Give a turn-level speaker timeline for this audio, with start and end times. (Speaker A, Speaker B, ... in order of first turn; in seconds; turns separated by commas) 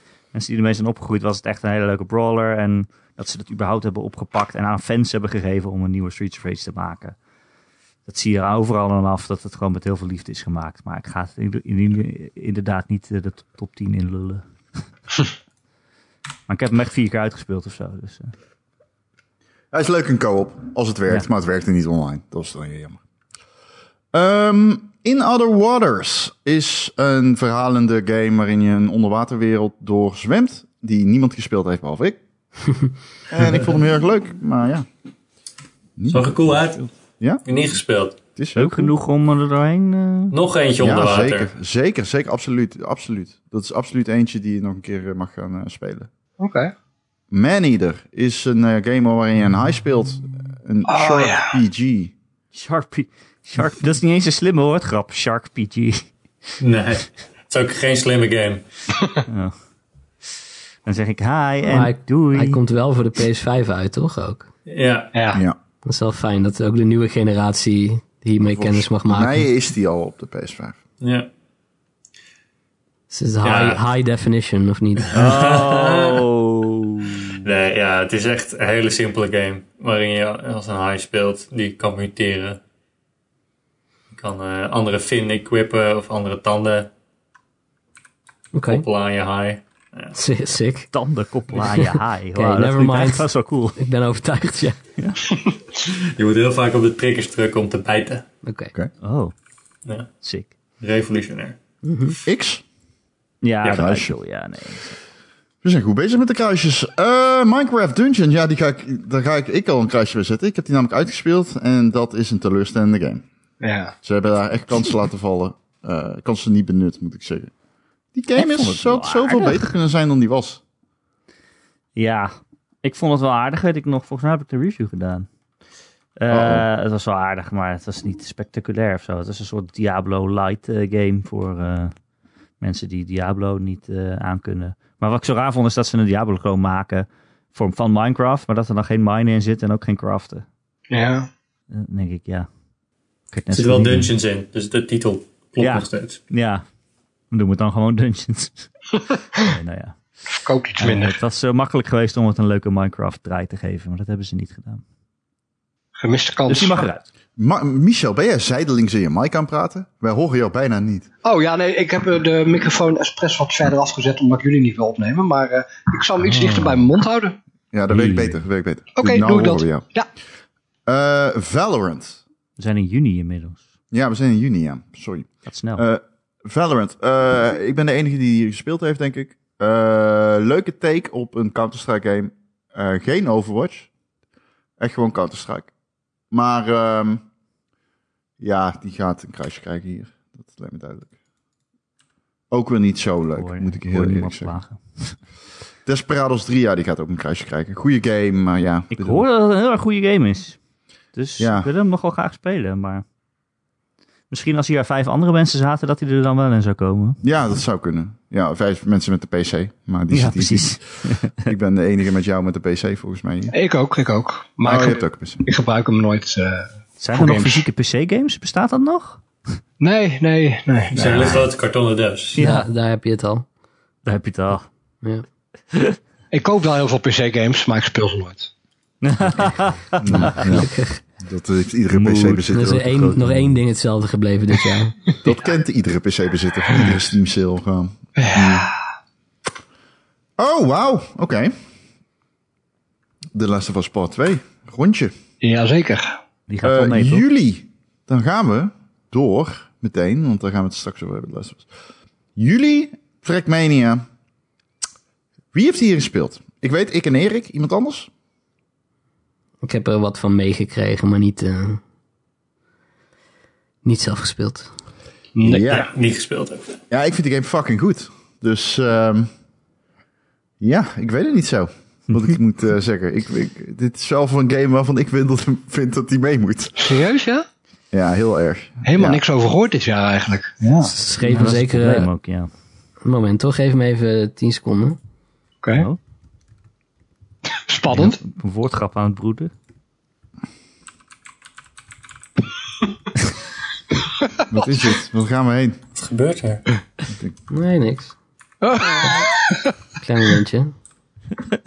Speaker A: 0.3-7.2, Speaker A: 8.1-14.4, Speaker A: 16.5-18.3, Speaker B: 19.7-23.0, Speaker B: 24.1-32.2, Speaker B: 33.3-34.9, Speaker B: 36.0-36.5, Speaker C: 36.1-36.9, Speaker C: 37.5-38.2, Speaker B: 38.4-38.9, Speaker A: 38.5-40.4, Speaker C: 40.3-41.5, Speaker B: 40.8-46.1, Speaker D: 46.4-46.7, Speaker B: 47.3-52.1, Speaker D: 50.9-51.6, Speaker A: 52.5-56.1, Speaker C: 56.6-58.6, Speaker A: 59.3-59.5, Speaker A: 60.8-62.6, Speaker E: 61.7-64.5, Speaker C: 64.7-65.1, Speaker D: 65.1-65.4, Speaker B: 65.3-65.6, Speaker E: 65.8-69.4, Speaker B: 68.4-70.8, Speaker C: 71.0-71.3, Speaker E: 73.1-75.1, Speaker C: 73.4-73.8, Speaker C: 75.1-76.2, Speaker A: 75.1-77.5, Speaker C: 77.4-82.6, Speaker C: 84.1-86.9, Speaker E: 88.5-88.8, Speaker C: 88.7-90.2, Speaker E: 90.1-90.9, Speaker A: 90.9-93.8, Speaker E: 91.6-94.8, Speaker C: 95.8-98.2, Speaker E: 98.4-98.7, Speaker A: 99.0-99.3, Speaker C: 99.8-100.1, Speaker A: 100.2-100.5, Speaker C: 100.8-101.6, Speaker E: 101.8-102.2, Speaker B: 102.2-102.6, Speaker A: 103.4-105.0, Speaker B: 103.7-104.1, Speaker B: 105.6-113.2, Speaker D: 113.6-113.9, Speaker B: 114.0-117.5, Speaker B: 118.1-120.6, Speaker A: 118.3-119.7, Speaker A: 121.9-125.3, Speaker A: 126.2-131.9, Speaker B: 126.3-126.7, Speaker A: 132.6-140.4, Speaker D: 140.9-141.3, Speaker A: 141.7-142.5, Speaker A: 143.3-144.1, Speaker C: 143.5-146.2, Speaker A: 145.6-146.6, Speaker A: 147.3-148.7, Speaker A: 149.4-150.2, Speaker D: 150.4-151.2, Speaker A: 150.8-154.8, Speaker D: 156.0-156.9, Speaker A: 156.5-157.1, Speaker B: 157.4-161.1, Speaker D: 161.2-167.4, Speaker A: 166.2-166.9, Speaker B: 167.7-169.8, Speaker A: 167.9-168.4, Speaker D: 168.9-170.1, Speaker B: 170.8-172.2, Speaker A: 172.6-173.7, Speaker B: 173.9-183.9, Speaker A: 175.4-175.8, Speaker B: 184.8-185.7, Speaker B: 186.3-187.2, Speaker B: 188.4-191.1, Speaker B: 192.5-194.5, Speaker A: 193.3-195.2, Speaker B: 195.8-199.2, Speaker A: 198.9-200.6, Speaker A: 201.1-203.0, Speaker B: 201.4-201.7, Speaker A: 204.3-207.2, Speaker B: 207.2-213.5, Speaker A: 210.1-211.5, Speaker D: 213.5-217.6, Speaker B: 214.6-215.4, Speaker A: 217.0-219.2, Speaker D: 219.8-220.9, Speaker C: 220.9-222.4, Speaker B: 220.9-221.5, Speaker A: 222.3-222.7, Speaker E: 222.4-223.4, Speaker A: 224.0-224.7, Speaker D: 226.3-228.5, Speaker A: 229.0-230.7, Speaker B: 230.0-230.7, Speaker E: 230.2-231.0, Speaker B: 231.2-233.1, Speaker A: 231.9-233.6, Speaker E: 232.5-235.0, Speaker B: 235.2-238.7, Speaker D: 238.2-238.8, Speaker B: 240.4-241.5, Speaker B: 243.3-245.1, Speaker D: 245.4-246.2, Speaker A: 246.5-247.2, Speaker B: 246.6-251.7, Speaker B: 252.3-254.0, Speaker B: 255.5-258.1, Speaker E: 259.6-261.8, Speaker E: 263.8-264.7, Speaker D: 265.4-265.9, Speaker B: 265.4-265.9, Speaker C: 265.7-266.8, Speaker B: 266.9-269.3, Speaker B: 270.6-276.9, Speaker A: 272.1-272.4, Speaker D: 276.8-277.4, Speaker B: 277.9-279.2, Speaker D: 278.8-280.6, Speaker B: 280.6-280.9, Speaker E: 280.9-282.1, Speaker A: 281.2-282.5, Speaker E: 283.0-285.0, Speaker D: 287.6-288.2, Speaker A: 287.9-289.5, Speaker B: 294.5-295.8, Speaker C: 295.9-296.6, Speaker E: 297.5-298.1, Speaker D: 298.6-299.6, Speaker E: 300.0-300.7